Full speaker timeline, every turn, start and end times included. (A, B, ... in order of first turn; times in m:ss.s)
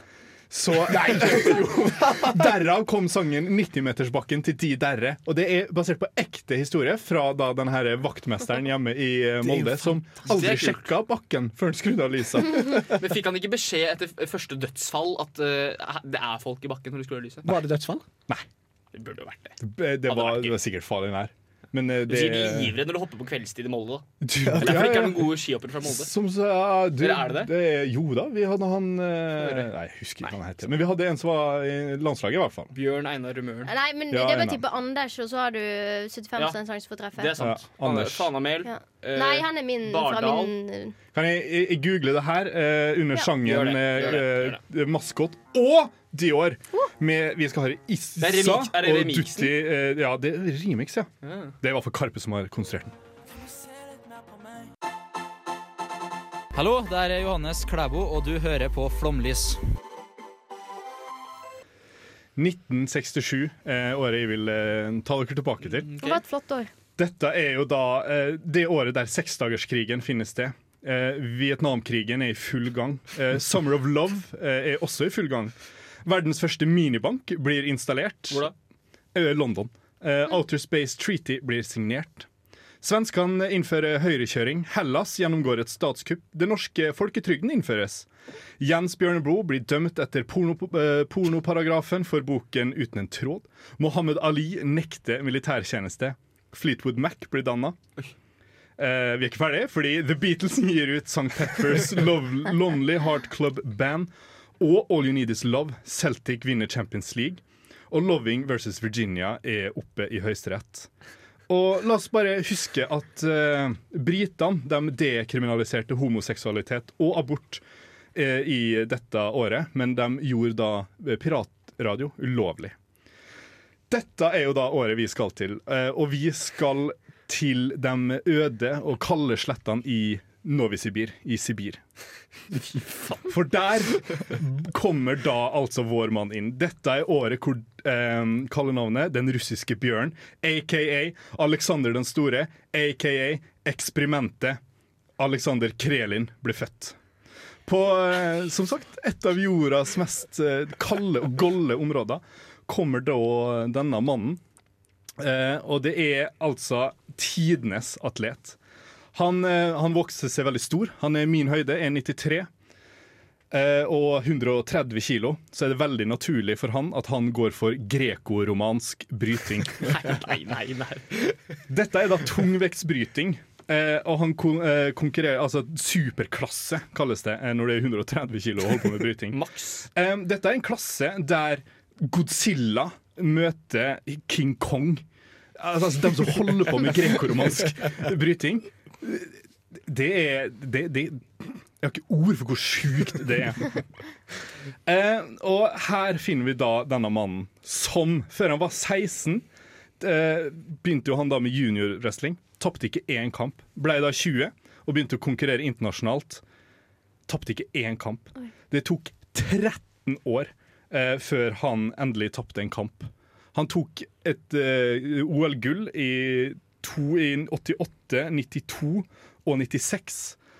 0:00.5-0:12.9 A
0:00.8-0:02.5 B
0:09.4-0:10.0 B
0:10.2-0:10.9 C
0:12.8-0:17.5 C
0:17.4-0:18.0 B
0:18.9-0:20.6 C
0:19.6-0:22.8 A
0:22.1-0:24.0 C
0:24.2-0:32.7 A
0:24.4-0:24.9 B
0:24.6-0:26.1 C
0:27.0-0:27.5 C
0:29.4-0:29.7 C
0:32.7-0:33.7 C
0:33.6-0:37.4 D
0:34.1-0:34.6 A
0:37.2-0:40.5 C
0:37.4-0:38.3 A
0:38.6-0:40.9 D
0:41.1-0:51.1 A
0:43.4-0:44.6 C
0:48.2-0:49.5 C
0:51.2-0:51.5 C
0:51.6-0:53.0 A
0:56.6-0:59.6 E
1:02.4-1:05.9 A
1:05.7-1:06.2 C
1:06.0-1:06.7 D
1:07.0-1:18.5 A
1:19.1-1:22.3 A
1:22.8-1:28.1 A
1:28.6-1:37.8 A
1:38.8-1:50.9 A
1:51.5-1:57.6 A
1:58.1-2:02.7 A
2:03.9-2:11.8 A
2:13.3-2:24.6 A
2:25.2-2:27.0 A
2:27.6-2:34.4 A
2:35.2-2:38.6 A
2:39.1-2:42.5 A
2:43.5-2:50.0 A
2:49.8-2:51.4 C
2:51.7-2:59.4 A
2:59.3-2:59.9 C
3:00.0-3:05.0 A
3:05.6-3:13.8 A
3:14.9-3:19.4 A
3:20.0-3:26.4 A
3:27.3-3:40.4 A